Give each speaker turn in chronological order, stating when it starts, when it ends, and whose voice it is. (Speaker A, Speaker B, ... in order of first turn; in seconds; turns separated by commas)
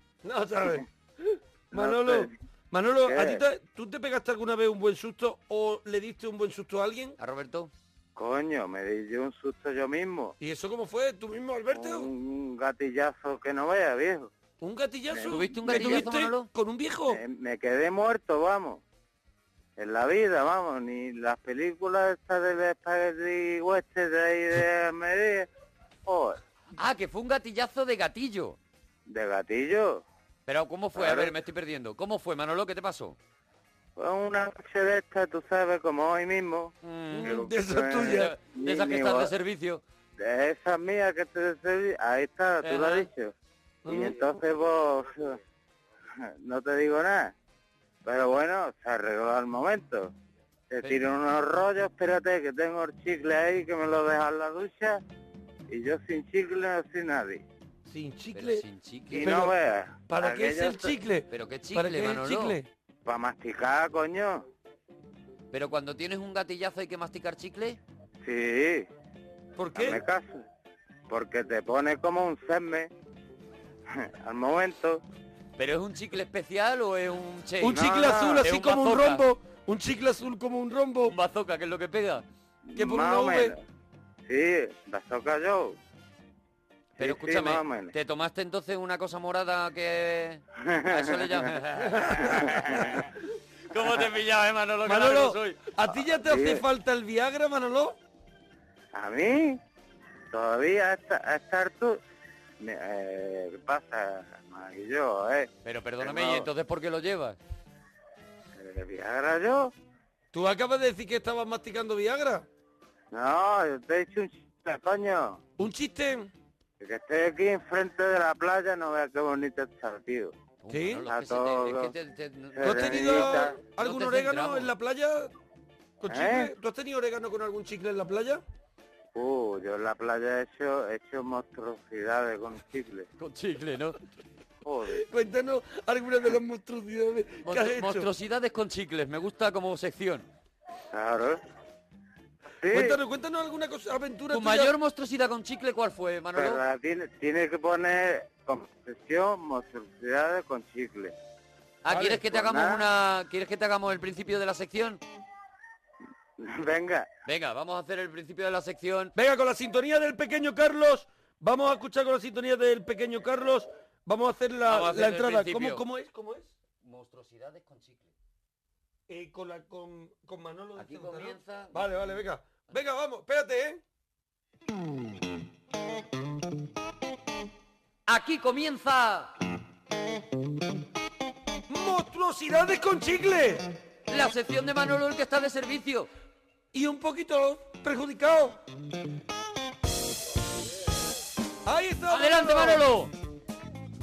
Speaker A: 0.2-7.2, Speaker B: 1.7-2.3, Speaker B: 3.0-3.4, Speaker C: 7.2-7.7, Speaker B: 8.2-10.3, Speaker A: 10.4-12.1, Speaker B: 11.7-14.3, Speaker A: 14.6-17.2, Speaker B: 15.1-16.0, Speaker C: 15.2-16.5, Speaker B: 17.1-18.8, Speaker B: 19.8-25.5, Speaker B: 26.1-26.4, Speaker C: 26.8-28.6, Speaker B: 29.1-30.0, Speaker C: 30.5-33.1, Speaker B: 30.9-31.3, Speaker B: 34.0-39.3, Speaker C: 36.8-37.4, Speaker A: 37.1-38.3, Speaker C: 37.9-39.8, Speaker B: 40.2-43.3, Speaker C: 42.6-43.1, Speaker A: 43.8-44.1, Speaker B: 43.9-45.4, Speaker B: 46.2-47.3, Speaker B: 48.0-50.1, Speaker B: 50.7-55.0, Speaker B: 55.7-57.4, Speaker A: 57.9-58.6, Speaker C: 58.3-59.3, Speaker B: 59.1-61.0, Speaker A: 59.1-59.5, Speaker A: 60.1-62.7, Speaker C: 61.3-62.6, Speaker B: 63.0-64.5, Speaker C: 65.5-67.8, Speaker B: 68.2-68.9, Speaker A: 69.6-70.0, Speaker B: 69.7-70.4, Speaker B: 71.1-72.9, Speaker B: 73.9-75.0, Speaker C: 75.6-79.2, Speaker A: 77.6-81.2, Speaker B: 77.7-78.4, Speaker C: 81.1-82.2, Speaker B: 82.7-83.5, Speaker A: 82.8-83.5, Speaker B: 84.2-85.8, Speaker C: 87.0-92.9, Speaker B: 87.0-87.9, Speaker B: 90.6-91.5, Speaker A: 91.9-92.2, Speaker B: 92.1-93.1, Speaker C: 93.7-95.6, Speaker A: 94.8-98.0, Speaker B: 95.9-96.6, Speaker B: 98.9-99.6, Speaker B: 100.3-102.0, Speaker B: 102.6-105.5, Speaker C: 105.6-107.4, Speaker B: 106.0-106.5, Speaker B: 108.5-109.7, Speaker A: 110.3-112.4, Speaker B: 113.1-115.4, Speaker A: 115.6-116.3, Speaker B: 116.8-120.3, Speaker C: 120.6-124.7, Speaker A: 120.7-121.1, Speaker B: 121.1-121.9, Speaker B: 122.5-123.6, Speaker A: 122.6-125.3, Speaker A: 126.0-128.4, Speaker B: 126.1-126.5, Speaker B: 129.1-133.1, Speaker C: 133.2-134.0, Speaker B: 134.6-135.0, Speaker A: 134.9-138.1, Speaker C: 137.4-140.2, Speaker B: 140.9-141.4, Speaker B: 142.6-143.0, Speaker A: 142.7-144.7, Speaker C: 144.3-146.6, Speaker B: 146.3-151.1, Speaker C: 151.8-155.0, Speaker A: 151.9-152.1, Speaker B: 152.2-152.8, Speaker B: 156.4-157.1, Speaker C: 157.2-159.1, Speaker A: 159.1-166.5, Speaker C: 164.7-165.8, Speaker C: 166.8-168.1, Speaker A: 169.1-173.8, Speaker C: 170.8-171.8, Speaker C: 178.1-179.3, Speaker A: 181.7-183.6, Speaker C: 184.1-186.1, Speaker A: 186.7-188.6, Speaker A: 191.7-192.8, Speaker C: 192.1-193.1